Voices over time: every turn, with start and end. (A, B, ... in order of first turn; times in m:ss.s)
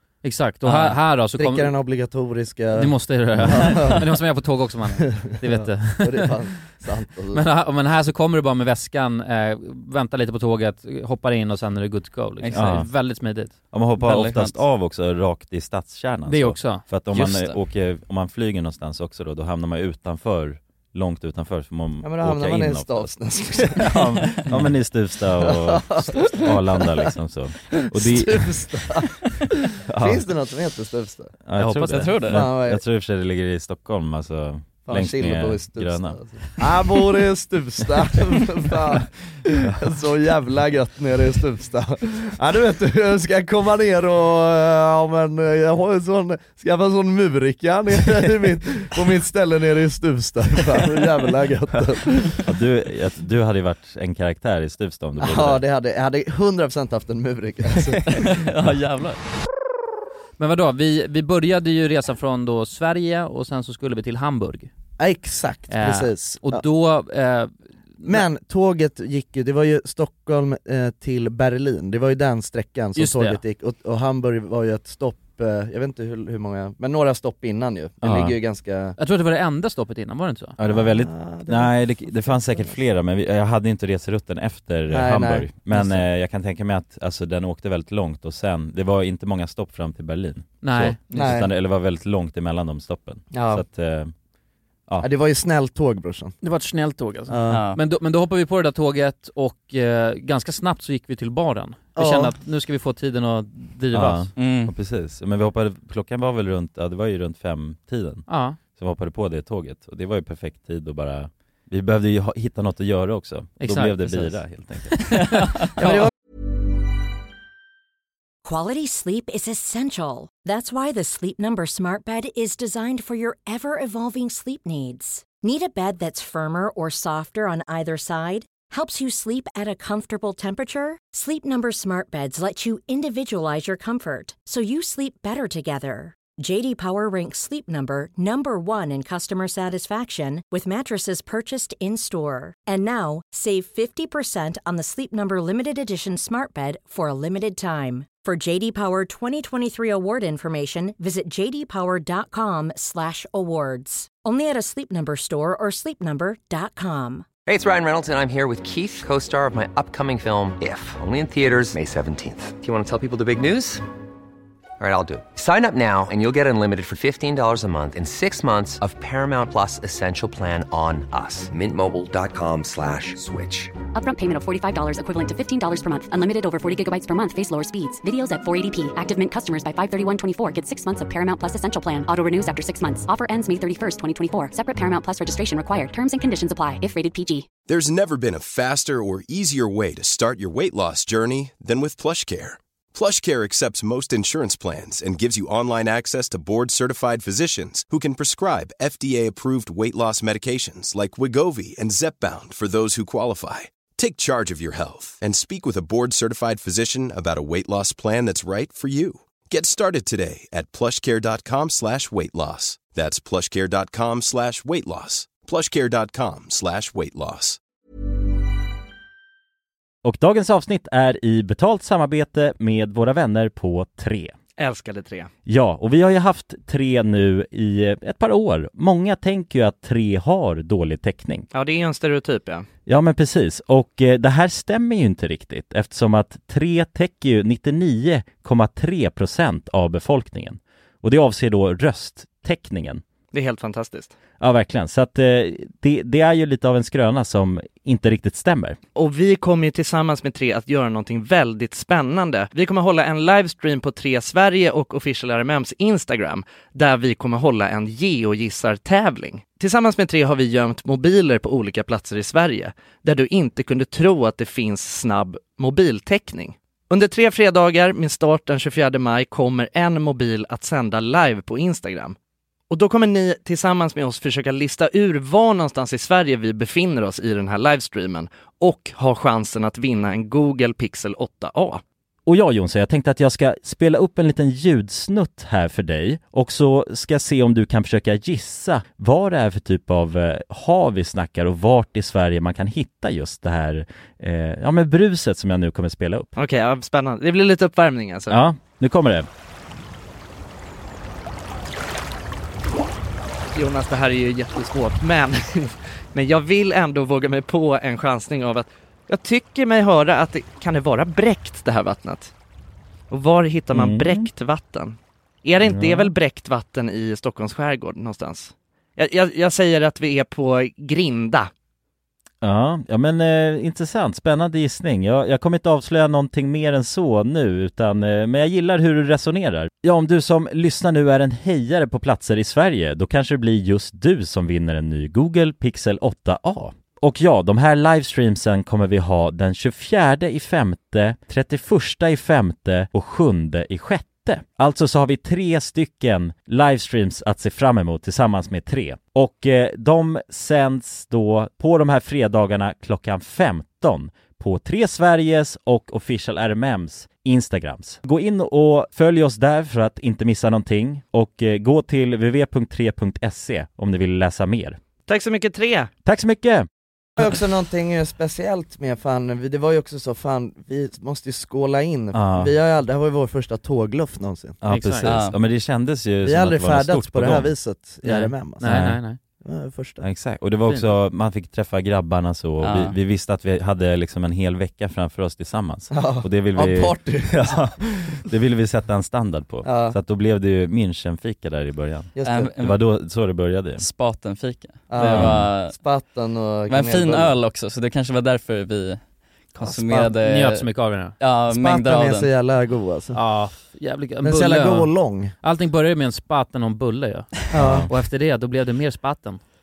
0:00.2-0:01.7 A
0:00.6-0:01.0 B
0:01.3-0:04.1 C
0:02.7-0:06.3 A
0:05.4-0:07.4 C
0:07.3-0:13.6 A
0:12.4-0:12.8 B
0:12.5-0:12.9 D
0:13.7-0:28.5 D
0:14.0-0:14.6 B
0:16.3-0:16.9 A
0:17.1-0:17.6 B
0:22.0-0:24.0 C
0:25.4-0:26.8 C
0:27.8-0:31.3 C
0:29.9-0:30.2 D
0:31.4-0:36.4 D
0:31.6-0:32.4 B
0:31.8-0:32.1 A
0:32.3-0:32.8 C
0:34.8-0:52.4 C
0:39.6-0:39.9 D
0:52.4-0:55.6 D
0:55.2-0:58.3 C
0:58.1-0:59.2 B
1:00.4-1:04.7 A
1:05.0-1:06.6 C
1:05.7-1:08.2 A
1:08.0-1:19.0 C
1:13.0-1:13.4 A
1:18.0-1:18.3 D
1:19.0-1:20.6 A
1:20.6-1:34.1 D
1:20.7-1:22.8 C
1:24.9-1:25.5 C
1:30.6-1:31.4 A
1:31.1-1:31.5 C
1:33.3-1:33.6 C
1:35.0-1:36.3 C
1:36.4-1:44.3 A
1:37.3-1:37.6 C
1:37.5-1:37.8 B
1:42.0-1:42.3 C
1:43.9-1:55.2 D
1:44.4-1:44.7 B
1:48.3-1:48.6 A
1:53.6-1:54.3 A
1:55.8-1:56.1 C
1:58.4-2:37.3 E
2:37.5-2:43.8 F
2:44.8-2:53.8 F
2:53.9-3:07.5 G
3:07.7-3:37.6 H
3:40.0-3:44.3 D
3:44.6-3:45.3 I
3:45.4-3:51.5 D
3:51.5-3:52.7 I
3:52.8-4:03.0 D
4:03.3-4:04.1 I
4:04.4-4:08.8 D
4:09.0-4:32.1 I
4:19.8-4:22.4 C
4:32.7-4:41.8 I
4:42.2-4:56.3 D
4:56.4-4:58.4 I
4:58.3-4:59.3 D
5:03.5-5:12.3 I
5:13.1-5:21.5 I
5:13.7-5:14.3 D
5:15.6-5:16.1 D
5:22.4-6:04.8 D
6:05.1-6:05.9 I
6:06.0-6:06.7 D
6:07.2-6:14.6 C
6:12.1-6:12.5 D
6:14.6-6:17.5 D
6:14.7-6:15.2 A
6:15.0-6:15.3 B
6:16.2-6:18.7 C
6:18.0-6:19.2 A
6:18.6-6:19.0 D
6:19.4-6:20.0 C
6:20.0-6:33.8 D
6:22.6-6:22.9 B
6:25.9-6:27.6 C
6:29.6-6:30.0 C
6:32.1-6:32.5 C
6:32.2-6:32.8 B
6:33.8-6:35.8 B
6:34.9-6:37.4 C
6:35.1-6:35.5 D
6:36.7-6:40.7 B
6:39.6-6:40.1 C
6:40.2-6:41.2 A
6:41.2-6:42.3 B
6:41.5-6:43.2 C
6:43.1-6:49.4 A
6:44.2-6:45.3 C
6:47.5-6:47.9 C
6:47.5-6:47.9 D